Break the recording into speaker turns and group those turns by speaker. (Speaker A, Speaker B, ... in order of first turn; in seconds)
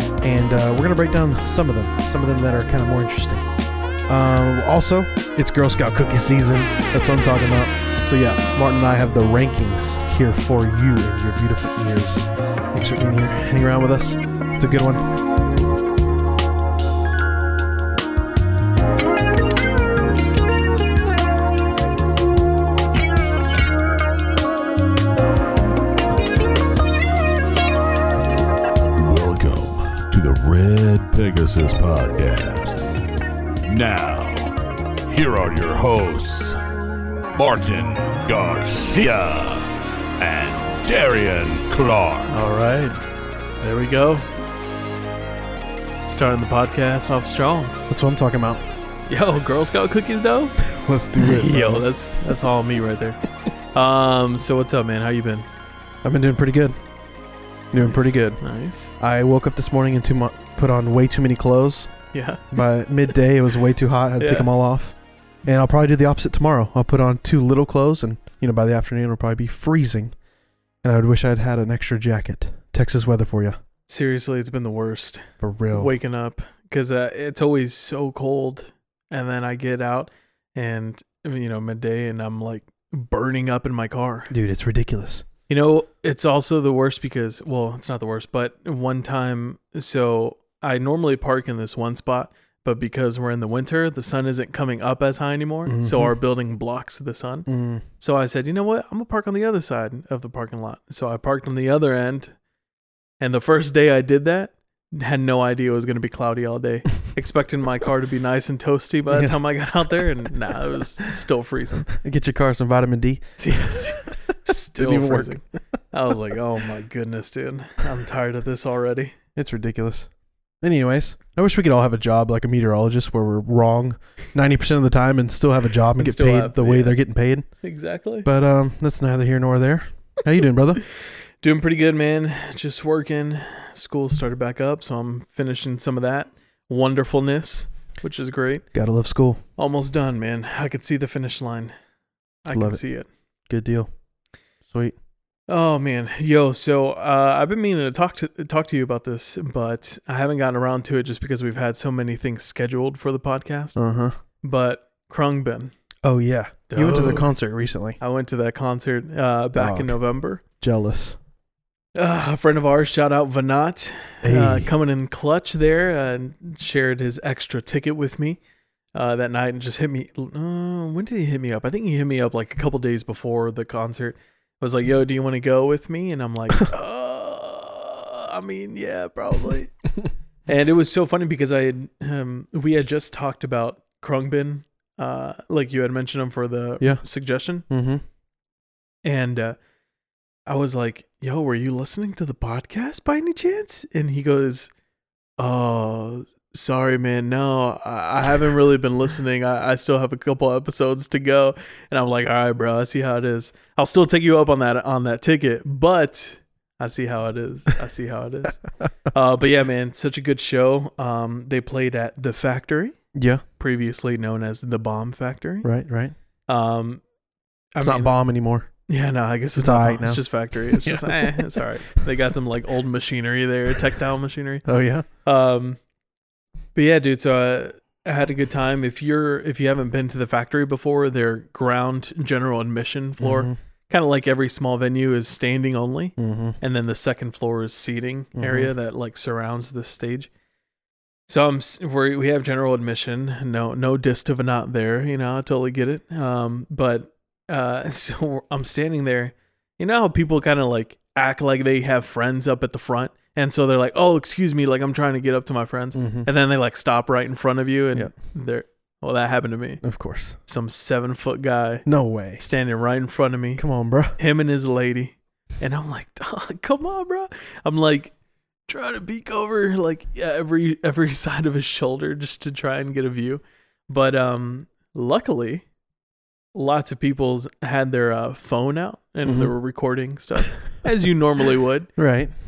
Speaker A: 0.2-3.5, 4.1-15.1, 47.9-48.6, 50.6-51.9, 56.0-56.8, 57.7-58.4, 59.0-61.9, 62.5-70.2, 70.8-73.6, 75.4-75.9, 84.3-85.3, 95.7-96.1, 97.5-97.8, 109.1-109.4, 111.9-113.2, 114.7-115.4, 119.4-120.1, 120.6-127.5, 128.2-130.8, 138.7-139.4, 142.5-142.8, 143.5-143.9, 144.7-145.0, 153.8-154.2, 156.0-158.0, 159.6-160.0, 160.6-161.2, 164.2-164.7, 187.7-188.0, 213.1-213.4, 215.6-216.1, 217.8-218.7, 219.6-221.7, 224.7-225.1, 233.2-233.6, 236.2-236.6, 238.4-238.7, 255.9-256.3, 259.8-260.4, 261.9-262.4, 263.6-264.2, 279.2-279.5, 282.0-282.3
Speaker B: 29.0-32.9, 33.7-34.5, 35.1-36.6, 37.3-39.7, 40.2-42.4
Speaker C: 42.3-43.0, 43.6-44.3, 46.1-47.8, 49.1-50.6, 51.2-53.2, 53.7-55.5, 57.8-58.9, 62.1-62.5, 64.2-64.5, 73.9-84.3, 85.5-97.5, 98.0-102.3, 103.2-111.9, 113.4-119.1, 126.0-127.0, 127.6-128.3, 131.4-138.7, 139.6-141.7, 142.4-143.1, 145.5-153.8, 154.4-155.7, 156.7-157.3, 158.0-160.4, 161.9-168.4, 168.9-179.7, 180.5-187.7, 189.0-189.6, 190.5-194.7, 195.4-212.9, 213.6-215.7, 216.5-217.0, 217.8-218.2, 218.9-224.7, 225.2-225.8, 226.8-240.3, 241.3-259.8, 260.5-261.9, 262.4-263.6, 264.2-268.1, 268.7-275.6, 276.5-281.9